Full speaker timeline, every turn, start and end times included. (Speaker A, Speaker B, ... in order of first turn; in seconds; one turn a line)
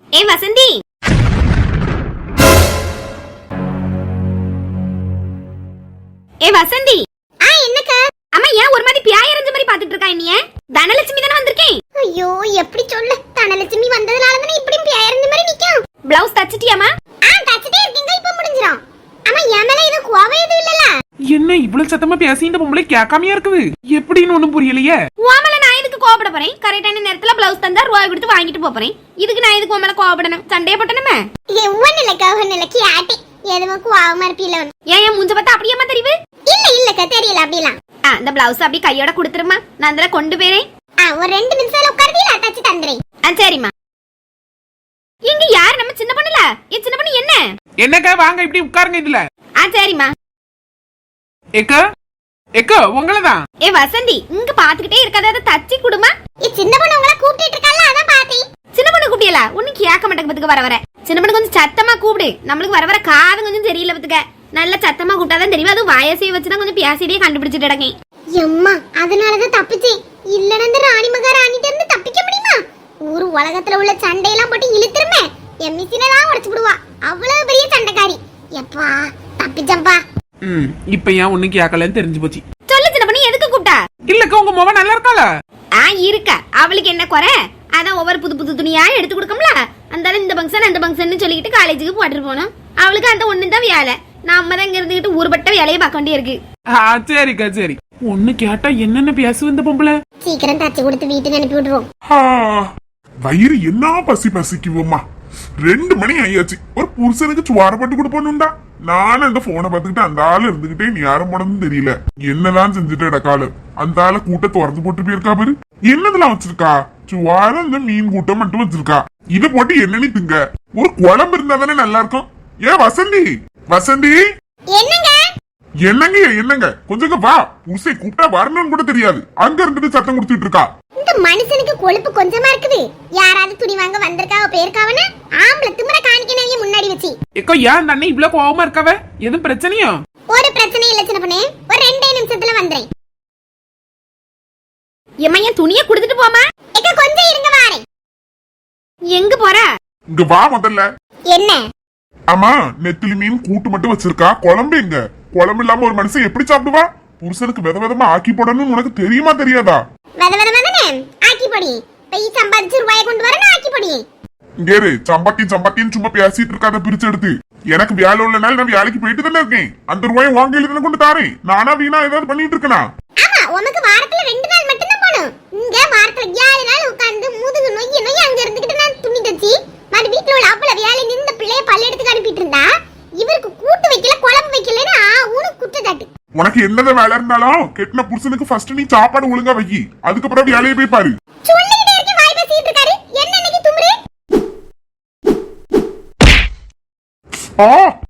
Speaker A: 0.1-0.8
Speaker A: 6.4-7.0
Speaker B: 7.4-8.0
Speaker A: 8.3-11.8
Speaker B: 12.0-15.8
Speaker A: 16.1-16.9
Speaker B: 17.2-20.9
Speaker C: 21.3-25.0
Speaker A: 25.2-31.2
Speaker B: 31.5-34.7
Speaker A: 34.9-36.1
Speaker B: 36.5-37.8
Speaker A: 38.1-40.7
Speaker B: 41.0-43.0
Speaker A: 43.2-43.7
Speaker A: 45.3-47.4
Speaker C: 47.8-49.2
Speaker A: 49.6-50.1
Speaker C: 51.6-51.8
Speaker C: 52.6-53.4
Speaker A: 53.6-56.1
Speaker B: 56.4-58.5
Speaker A: 58.7-67.9
Speaker B: 68.3-80.0
Speaker C: 80.4-82.4
Speaker A: 82.7-83.8
Speaker C: 84.1-85.3
Speaker A: 85.8-96.4
Speaker C: 96.7-100.0
Speaker B: 100.2-101.9
Speaker D: 102.1-102.7
Speaker D: 103.2-105.0
Speaker D: 105.6-124.2
Speaker B: 124.7-125.2
Speaker D: 125.9-130.7
Speaker B: 131.0-137.1
Speaker C: 137.4-140.0
Speaker B: 140.3-142.9
Speaker A: 145.2-146.4
Speaker B: 146.7-147.8
Speaker A: 149.1-149.7
Speaker D: 150.1-150.8
Speaker B: 151.3-151.6
Speaker D: 152.3-159.8
Speaker B: 160.2-164.0
Speaker D: 164.7-172.8
Speaker B: 173.2-186.1
Speaker D: 186.4-191.1
Speaker B: 191.5-194.0
Speaker D: 197.6-197.9